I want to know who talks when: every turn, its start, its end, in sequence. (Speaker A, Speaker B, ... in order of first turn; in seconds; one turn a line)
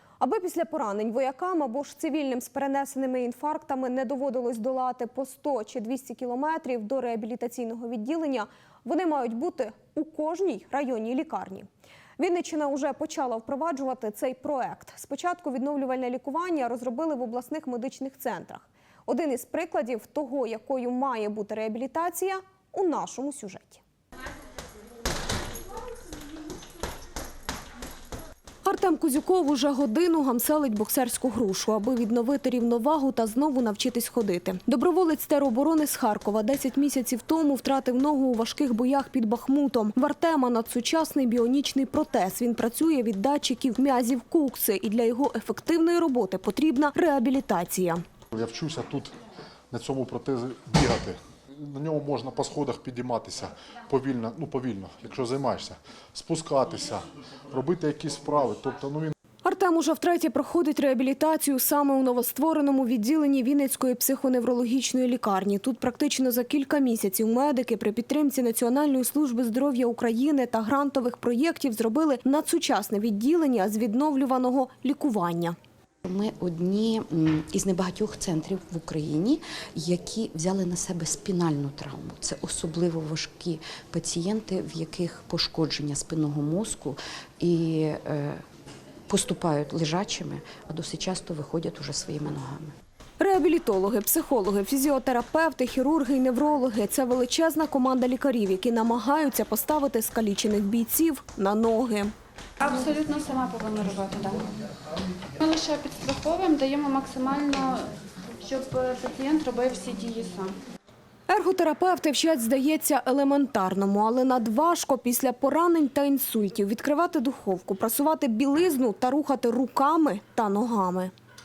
Speaker A: 0.2-11.7
Speaker A: 12.2-23.8
Speaker A: 28.6-48.0
Speaker B: 48.3-49.1
Speaker B: 49.7-59.1
Speaker A: 59.4-75.5
Speaker C: 76.0-88.4
Speaker C: 89.1-92.7
Speaker A: 93.2-102.1
Speaker D: 102.6-104.5
Speaker D: 105.4-107.9
Speaker D: 108.4-110.5
Speaker A: 111.3-121.1